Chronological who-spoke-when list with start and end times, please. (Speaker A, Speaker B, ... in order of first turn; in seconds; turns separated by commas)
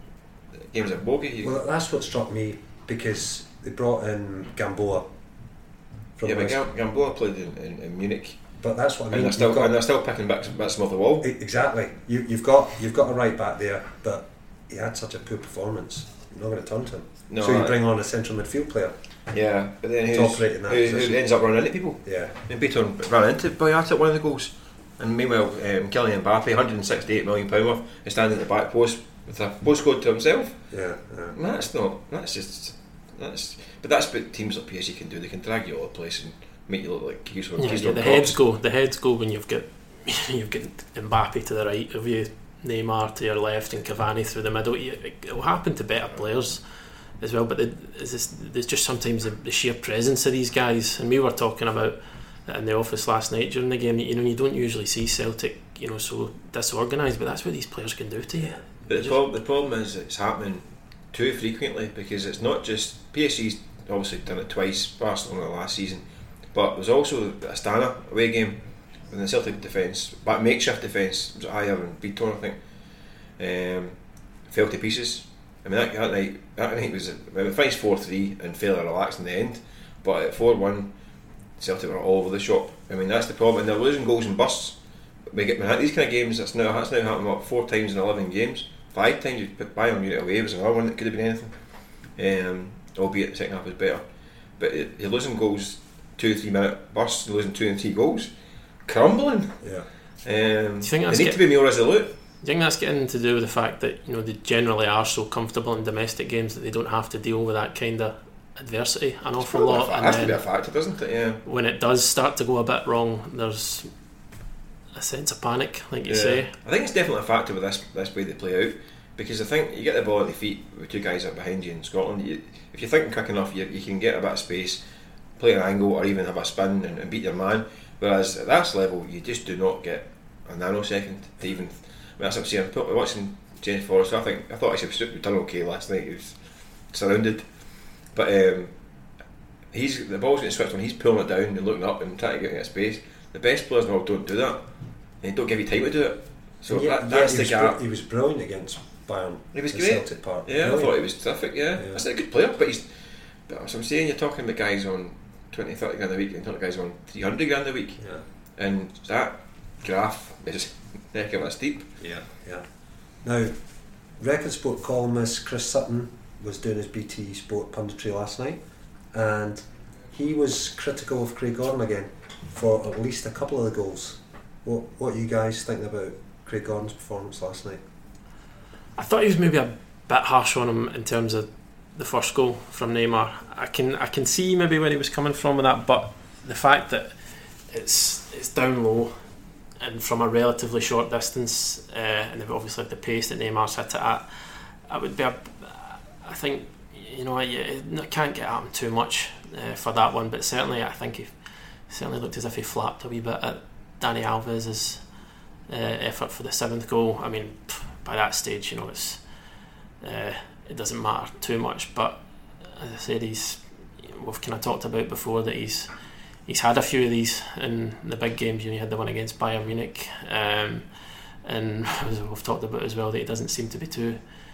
Speaker A: 0.7-1.5, Speaker B: 1.4-5.1, Speaker B: 6.2-6.6, Speaker A: 6.2-8.4, Speaker B: 8.6-9.7, Speaker A: 9.1-11.3, Speaker B: 11.2-18.9, Speaker A: 17.3-17.8, Speaker A: 19.3-30.6, Speaker B: 20.1-21.2, Speaker B: 22.0-22.4, Speaker B: 30.7-31.4, Speaker A: 31.3-38.4, Speaker C: 37.6-46.6, Speaker C: 47.2-59.2, Speaker A: 58.9-72.6, Speaker A: 73.4-74.0, Speaker A: 74.5-80.9, Speaker A: 81.6-84.8, Speaker A: 85.3-91.6, Speaker A: 92.2-94.0, Speaker A: 94.6-98.3, Speaker A: 98.8-99.6, Speaker B: 99.6-99.9, Speaker A: 100.2-102.1, Speaker C: 100.8-101.4, Speaker C: 102.4-110.4, Speaker A: 109.4-111.4, Speaker C: 111.4-113.9, Speaker C: 114.9-116.5, Speaker A: 116.1-124.8, Speaker A: 125.4-136.4, Speaker A: 136.9-137.5, Speaker A: 138.1-138.7, Speaker A: 139.7-144.7, Speaker A: 145.2-147.8, Speaker B: 146.7-151.0, Speaker A: 149.5-152.9, Speaker B: 151.8-152.0, Speaker A: 153.5-162.0, Speaker B: 158.0-158.2, Speaker B: 162.0-168.6, Speaker B: 169.1-177.8, Speaker C: 178.9-205.1, Speaker C: 205.7-209.2, Speaker C: 210.0-224.2